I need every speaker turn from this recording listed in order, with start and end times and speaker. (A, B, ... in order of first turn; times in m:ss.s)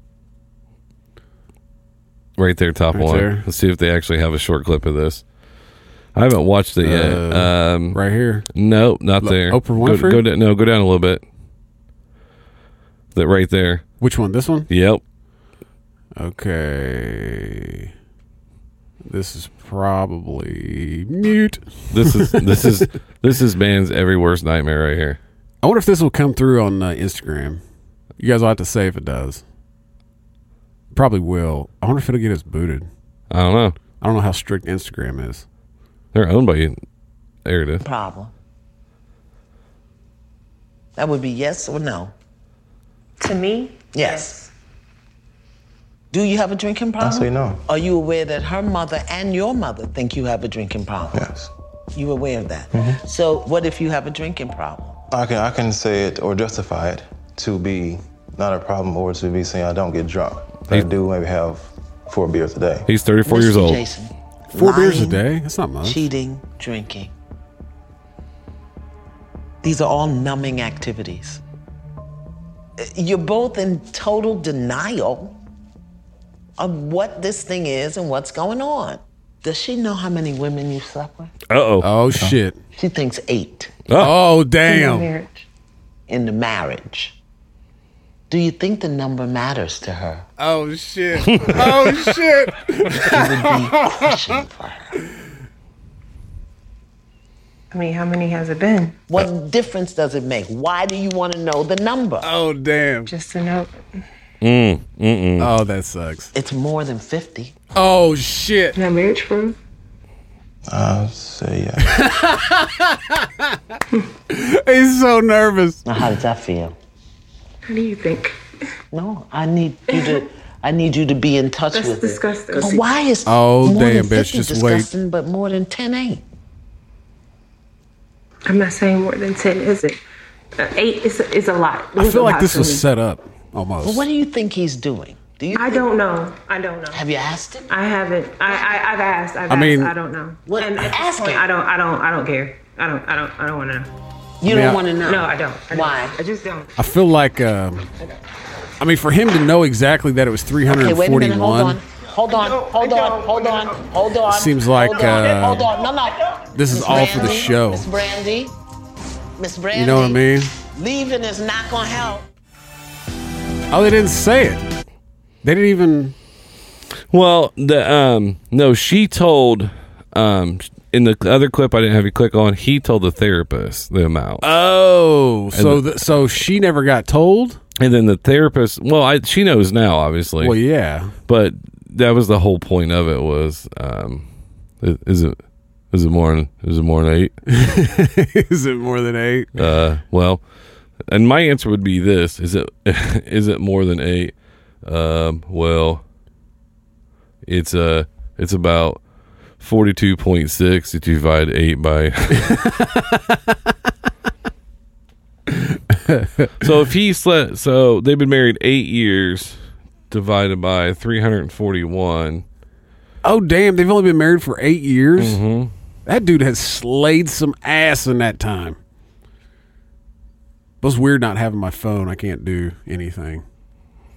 0:02.4-0:05.2 A
0:02.9-0:03.4 B
0:06.1-0:08.0 A
0:06.8-0:08.5 B
0:08.5-0:11.2 A
0:09.2-0:10.2 B
0:13.1-0:13.8 A
0:14.0-0:14.7 B
0:14.7-0:15.0 A
0:16.2-0:17.9 B
0:19.0-0:22.7 B
0:21.9-0:25.2 A
0:25.6-0:27.6 B
0:28.2-0:29.4 B
0:30.9-0:32.9 B
0:33.3-0:33.8 A
0:34.0-0:35.4 B
0:36.1-0:36.8 A
0:37.4-0:37.8 A
0:37.8-0:38.3 C
0:41.0-0:42.1 C
0:43.2-0:44.5 D
0:43.9-0:44.4 C
0:46.1-0:51.3 C
0:47.0-0:47.6 E
0:51.1-0:51.5 E
0:51.9-0:55.0 C
0:52.7-0:53.0 E
0:55.1-1:02.9 E
1:02.8-1:03.8 A
1:03.2-1:05.2 C
1:04.5-1:06.0 B
1:05.8-1:07.1 C
1:09.6-1:11.4 C
1:12.8-1:15.4 C
1:16.6-1:21.3 C
1:21.5-1:21.9 A
1:21.8-1:22.6 B
1:22.7-1:23.7 C
1:23.9-1:24.2 A
1:24.0-1:25.1 B
1:24.7-1:25.4 D
1:26.1-1:27.2 C
1:28.3-1:30.2 C
1:30.4-1:34.2 B
1:31.2-1:32.0 A
1:32.9-1:34.9 C
1:37.7-1:39.0 D
1:39.1-1:42.3 C
1:42.2-1:43.1 B
1:43.1-1:43.8 D
1:44.4-1:45.5 A
1:45.4-1:46.3 B
1:46.3-1:47.5 C
1:47.7-1:48.8 B
1:48.8-1:49.6 D
1:50.7-1:52.0 E
1:51.8-1:53.6 B
1:54.3-1:55.8 B
1:55.8-1:56.7 C
1:57.7-1:58.4 D
1:58.9-2:06.2 C
1:59.9-2:00.2 D
2:01.7-2:02.9 D
2:03.2-2:04.9 B
2:08.4-2:10.0 D
2:10.6-2:12.8 D
2:12.0-2:14.1 B
2:13.8-2:15.9 C
2:15.5-2:17.0 D
2:16.9-2:17.7 C
2:17.7-2:23.9 D
2:19.5-2:19.9 B
2:20.5-2:21.5 C
2:24.4-2:26.2 C
2:24.4-2:24.8 B
2:25.0-2:26.7 D
2:26.8-2:27.9 B
2:28.8-2:31.8 B
2:30.6-2:38.5 C
2:34.3-2:35.7 B
2:36.5-2:37.8 B
2:39.4-2:42.2 C
2:39.7-2:40.5 B
2:43.7-2:44.7 B
2:45.4-2:46.1 B
2:47.1-2:54.4 A
2:54.4-2:57.6 B
2:55.5-2:55.8 A
2:57.8-3:00.6 A
3:00.4-3:01.1 B
3:01.3-3:04.2 A
3:04.8-3:05.4 A
3:05.9-3:07.4 A
3:07.5-3:09.6 B
3:09.6-3:10.4 A
3:11.1-3:16.0 A
3:17.4-3:19.0 A
3:19.6-3:22.7 A
3:22.5-3:23.2 B
3:25.5-3:26.6 B
3:26.6-3:29.6 A
3:30.1-3:32.4 A
3:33.2-3:35.4 B
3:35.2-3:35.7 A
3:36.0-3:38.8 B
3:40.8-3:43.4 B